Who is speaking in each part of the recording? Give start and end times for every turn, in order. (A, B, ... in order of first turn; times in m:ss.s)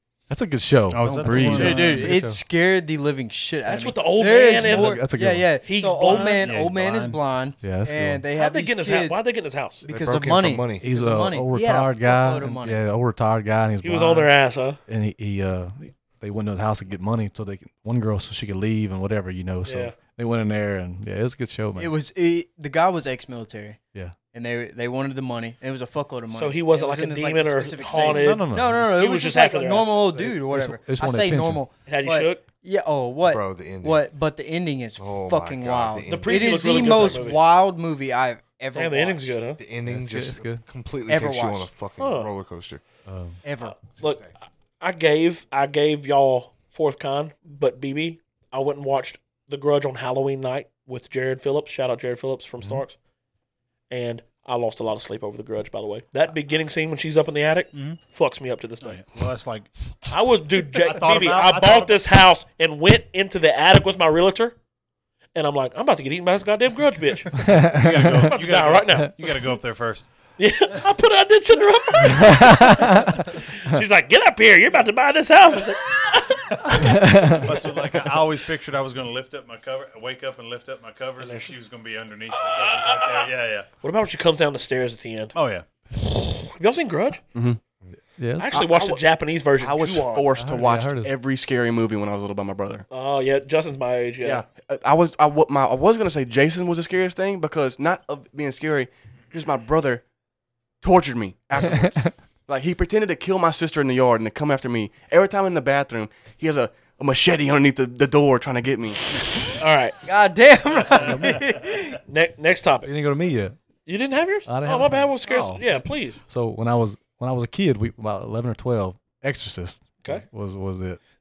0:00.3-0:02.4 A
0:00.9-0:02.1 B
0:01.2-0:09.2 C
0:03.6-0:05.1 D
0:04.6-0:05.5 A
0:05.6-0:06.5 D
0:06.4-0:07.2 B
0:07.6-0:08.2 A
0:08.3-0:09.8 D
0:09.8-0:12.8 C
0:09.8-0:10.9 E
0:10.8-0:14.3 A
0:13.8-0:14.8 D
0:14.9-0:21.9 A
0:19.6-0:19.9 D
0:21.8-0:23.8 C
0:24.3-0:39.5 C
0:26.3-0:30.0 D
0:28.0-0:28.9 A
0:30.1-0:31.6 A
0:31.8-0:32.4 D
0:33.2-0:34.1 E
0:35.0-0:37.3 E
0:36.1-0:37.4 D
0:38.7-0:39.6 D
0:39.6-0:42.8 E
0:39.8-0:40.6 A
0:41.1-0:41.7 C
0:42.0-0:42.3 D
0:43.0-0:43.4 A
0:43.4-0:43.8 C
0:43.6-0:44.2 D
0:43.8-0:44.3 E
0:44.8-0:53.0 D
0:53.9-0:59.0 D
0:57.7-0:58.0 B
0:58.8-1:00.1 B
1:00.1-1:04.6 D
1:00.6-1:02.0 B
1:05.3-1:07.6 D
1:07.4-1:08.3 A
1:07.5-1:10.1 B
1:08.3-1:09.1 D
1:10.4-1:17.5 D
1:12.0-1:13.2 A
1:16.9-1:17.4 A
1:17.3-1:23.7 B
1:21.2-1:21.5 D
1:22.3-1:23.3 D
1:23.8-1:25.3 D
1:25.3-1:25.6 B
1:25.9-1:27.2 D
1:27.3-1:27.6 F
1:28.2-1:28.5 A
1:28.4-1:30.3 D
1:28.5-1:29.0 F
1:29.5-1:32.8 F
1:30.3-1:31.1 A
1:32.9-1:34.4 D
1:34.2-1:40.0 F
1:40.8-1:49.6 F
1:49.6-1:50.0 D
1:50.0-1:52.0 C
1:51.0-1:51.5 A
1:52.1-1:52.9 D
1:52.8-1:53.6 A
1:53.8-1:56.2 D
1:54.4-2:01.0 A